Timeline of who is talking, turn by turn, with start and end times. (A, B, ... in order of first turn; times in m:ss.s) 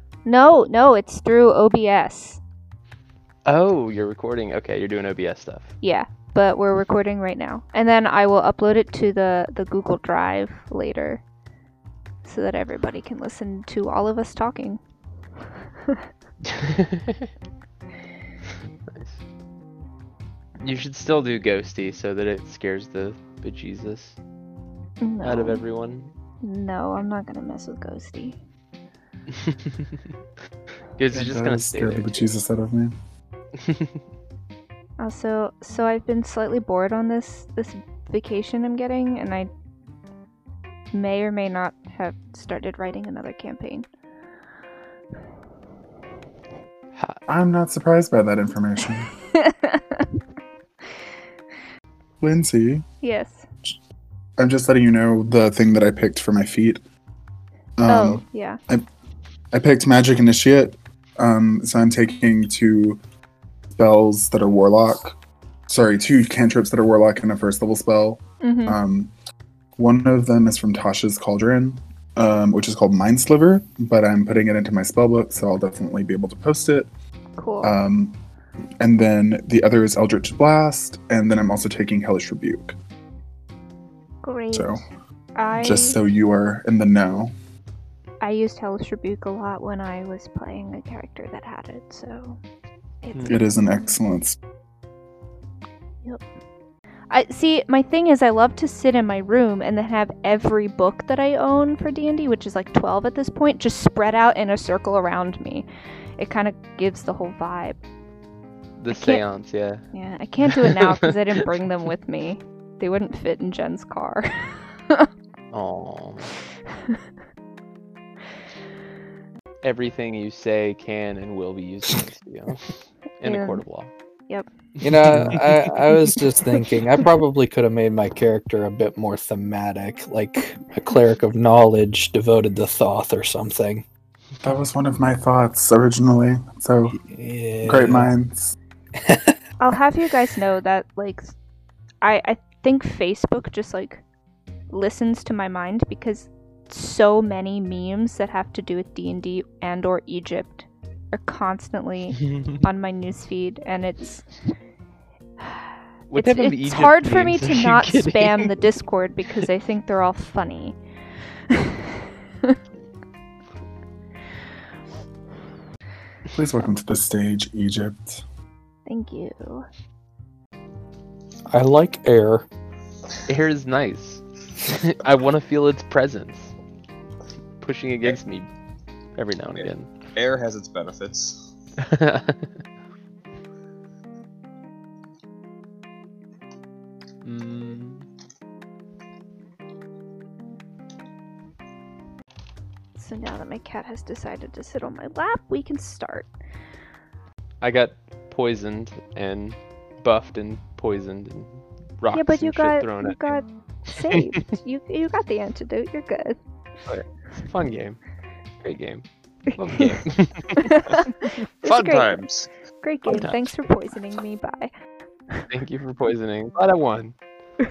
0:00.2-0:02.4 A
0:03.5-0:05.7 B
0:05.8-0:11.2 A
0:12.2-0:14.8 A
0:18.9-0:19.2 B
0:20.6-0:24.2 B
0:25.0-0:25.6 A
0:25.2-0:26.1 B
0:26.4-0:28.4 A
0:29.4-0:29.8 B
0:31.0-0:32.3 B
0:31.1-0:33.0 C
0:35.0-0:39.5 A
0:40.9-0:43.9 A
0:47.3-0:49.1 C
0:49.3-0:50.1 A
0:52.2-0:52.8 C
0:53.0-0:53.4 A
0:54.4-0:56.8 C
0:57.8-0:58.8 C
0:57.8-0:58.6 A
0:59.5-1:03.0 C
1:03.7-1:05.2 C
1:05.7-1:09.1 C
1:08.4-1:08.8 A
1:09.8-1:16.9 C
1:17.4-1:17.7 A
1:17.6-1:18.2 C
1:18.8-1:22.8 C
1:24.2-1:24.8 A
1:24.5-1:24.8 C
1:25.4-1:26.0 A
1:25.6-1:27.3 C
1:28.2-1:32.4 A
1:33.0-1:33.7 A
1:33.3-1:34.4 C
1:37.1-1:45.7 A
1:46.2-1:47.8 A
1:48.8-1:49.8 B
1:48.9-1:49.3 A
1:49.9-1:55.1 A
1:50.4-1:51.4 B
1:55.5-1:56.3 B
1:59.6-2:03.9 B
2:03.2-2:03.6 A
2:04.8-2:05.6 B
2:04.8-2:13.8 D
2:06.0-2:06.9 A
2:14.4-2:17.0 C
2:16.9-2:18.1 D
2:17.6-2:18.6 C
2:19.0-2:19.4 D
2:19.6-2:21.3 A
2:22.0-2:24.0 A
2:24.7-2:34.2 A
2:36.1-2:38.6 B
2:36.1-2:40.8 A
2:46.4-2:48.2 C
2:48.9-2:49.6 A
2:51.5-2:52.5 D
2:53.3-2:56.5 B
2:57.6-2:58.5 B
2:59.2-3:00.0 B
2:59.5-3:01.4 E
3:01.9-3:02.5 B
3:07.2-3:08.1 B
3:13.0-3:16.3 A
3:17.6-3:23.4 B
3:22.1-3:26.4 A
3:26.9-3:28.0 B
3:28.6-3:30.7 B
3:30.6-3:32.2 A
3:31.6-3:32.5 E
3:32.8-3:34.7 A
3:33.1-3:33.6 B
3:35.5-3:37.2 B